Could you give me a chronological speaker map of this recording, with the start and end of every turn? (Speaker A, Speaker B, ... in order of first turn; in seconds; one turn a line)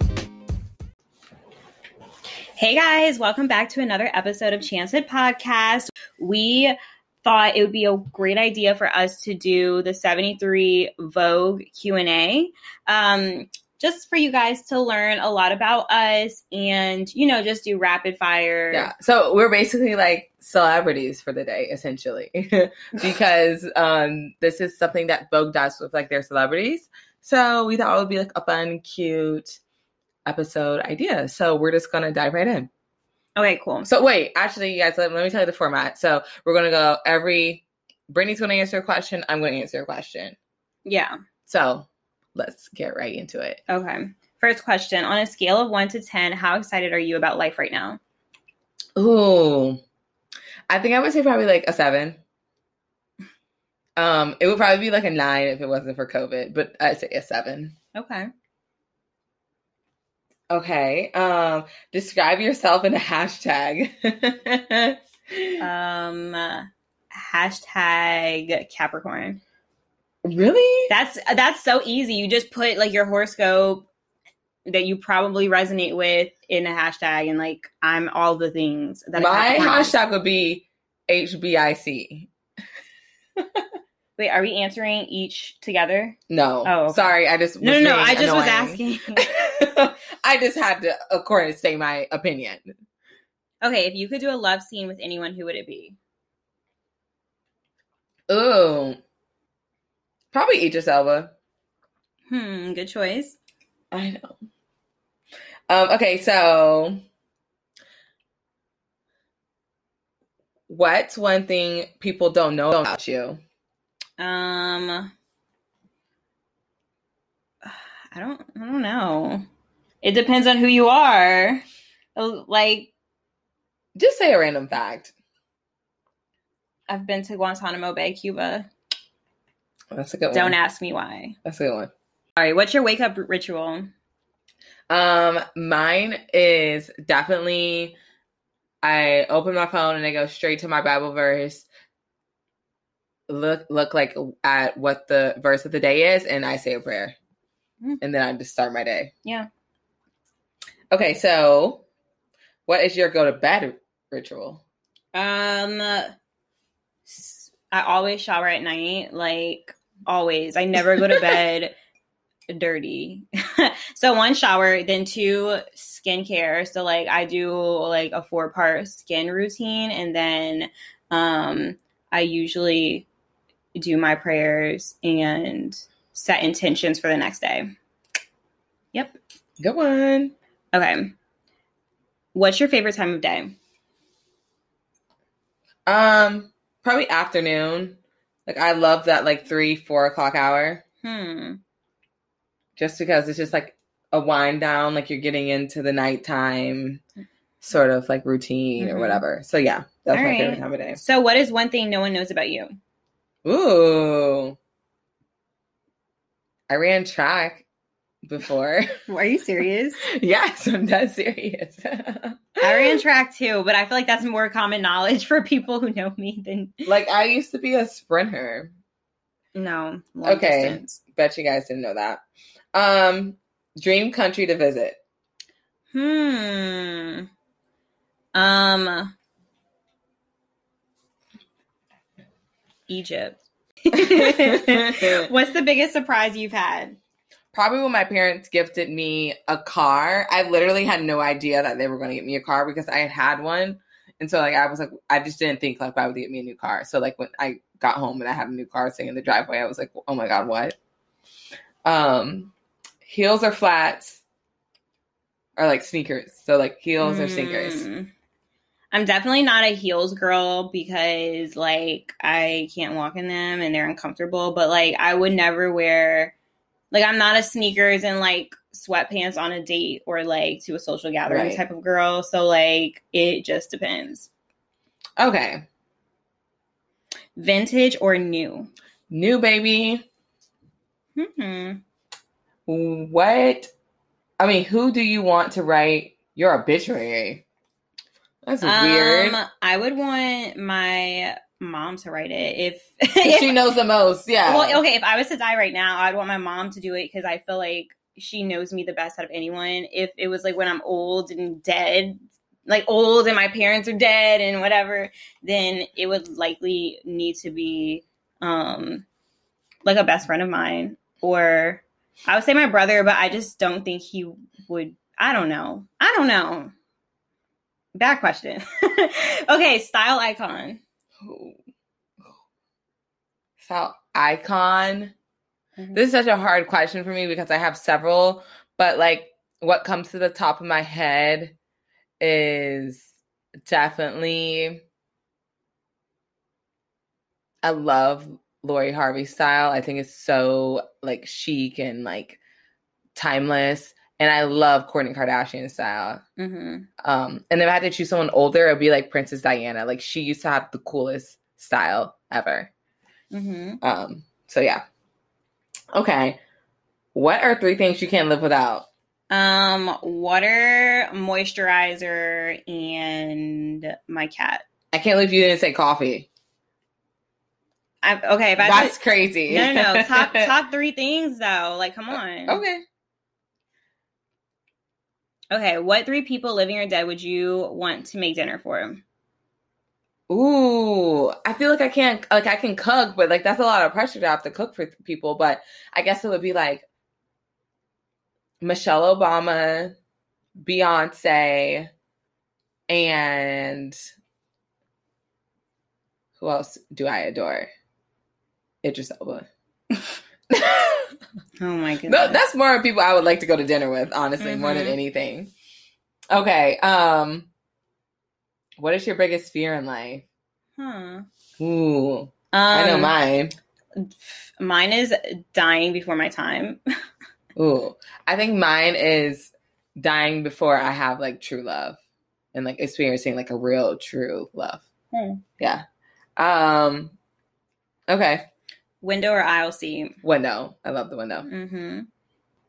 Speaker A: 2.6-18.9
Speaker B: 18.7-29.6
Speaker B: 30.3-32.7
Speaker A: 33.4-33.9
Speaker B: 33.9-40.4
Speaker A: 40.9-41.1
Speaker B: 41.5-43.6
Speaker A: 43.7-48.0
Speaker B: 49.0-49.8
Speaker B: 50.7-52.2
Speaker B: 54.0-57.8
Speaker A: 58.0-58.3
Speaker B: 60.5-65.6
Speaker A: 65.6-69.4
Speaker B: 70.2-70.9
Speaker A: 70.9-73.9
Speaker A: 74.7-80.0
Speaker B: 79.2-82.3
Speaker B: 83.4-83.7
Speaker A: 84.2-89.3
Speaker B: 86.3-92.7
Speaker A: 93.6-96.0
Speaker B: 98.3-99.0
Speaker B: 100.3-101.3
Speaker A: 102.3-103.4
Speaker B: 103.9-104.4
Speaker B: 105.7-107.0
Speaker B: 110.7-113.4
Speaker A: 114.2-115.1
Speaker A: 117.7-119.4
Speaker A: 120.0-121.6
Speaker A: 122.2-122.9
Speaker B: 124.0-125.1
Speaker A: 126.9-128.7
Speaker B: 129.9-130.6
Speaker A: 130.3-131.4
Speaker B: 131.4-131.9
Speaker A: 132.4-133.9
Speaker B: 134.9-138.0
Speaker B: 138.8-141.7
Speaker B: 143.3-147.2
Speaker B: 148.0-149.1
Speaker B: 150.9-151.8
Speaker B: 152.7-154.6
Speaker A: 155.1-156.1
Speaker A: 157.1-161.8
Speaker B: 161.0-161.4
Speaker A: 162.5-173.1
Speaker A: 173.8-177.7
Speaker B: 179.6-180.3
Speaker A: 180.7-181.1
Speaker A: 182.3-183.6
Speaker B: 185.9-190.8
Speaker A: 191.0-191.6
Speaker B: 192.8-197.0
Speaker B: 197.6-201.0
Speaker A: 198.8-199.2
Speaker A: 200.1-202.7
Speaker B: 203.4-204.6
Speaker B: 206.7-207.7
Speaker B: 208.2-208.9
Speaker A: 209.1-210.1
Speaker B: 210.1-213.0
Speaker A: 212.6-216.9
Speaker B: 216.9-218.7
Speaker A: 219.6-221.0
Speaker B: 220.2-222.2
Speaker B: 222.7-225.0
Speaker A: 225.9-227.3
Speaker A: 228.3-229.1
Speaker A: 232.9-237.0
Speaker B: 233.9-235.3
Speaker B: 237.5-250.8
Speaker B: 251.8-252.5
Speaker B: 253.1-254.2
Speaker B: 255.6-257.9
Speaker A: 257.0-258.1
Speaker A: 258.9-266.3
Speaker A: 266.9-274.3
Speaker B: 271.3-271.6
Speaker B: 275.2-275.6
Speaker A: 277.4-278.7
Speaker B: 279.1-280.1
Speaker A: 281.2-281.8
Speaker B: 282.7-283.7
Speaker B: 284.4-287.4
Speaker B: 288.4-289.4
Speaker A: 288.6-293.6
Speaker B: 293.2-294.8
Speaker A: 294.5-309.1
Speaker A: 309.9-316.7
Speaker A: 317.9-320.8
Speaker B: 321.2-321.6
Speaker B: 323.6-325.1
Speaker B: 325.9-331.5
Speaker B: 332.2-333.1
Speaker B: 333.6-334.8
Speaker B: 337.6-342.4
Speaker B: 343.1-346.2
Speaker A: 346.4-346.9
Speaker B: 347.0-352.7
Speaker A: 353.3-353.8
Speaker B: 353.8-354.8
Speaker B: 355.9-356.4
Speaker B: 357.1-358.9
Speaker A: 359.3-364.6
Speaker B: 364.9-366.3
Speaker A: 368.0-372.6
Speaker B: 368.6-370.5
Speaker B: 372.5-372.8
Speaker A: 375.5-379.0
Speaker B: 380.3-386.9
Speaker B: 388.6-389.9
Speaker B: 390.6-391.9
Speaker B: 392.9-394.0
Speaker B: 396.4-397.7
Speaker B: 398.8-399.5
Speaker B: 400.5-401.1
Speaker A: 401.6-402.4
Speaker B: 402.1-405.5
Speaker A: 404.4-405.0
Speaker B: 406.3-407.5
Speaker B: 408.8-410.2
Speaker A: 410.8-411.2
Speaker B: 411.6-413.6
Speaker A: 412.5-413.1
Speaker A: 414.0-416.8
Speaker B: 417.6-422.0
Speaker B: 422.5-424.9
Speaker A: 425.1-425.4
Speaker B: 426.4-427.1
Speaker B: 428.1-428.5
Speaker A: 429.0-430.2
Speaker B: 430.2-431.5
Speaker A: 431.4-432.1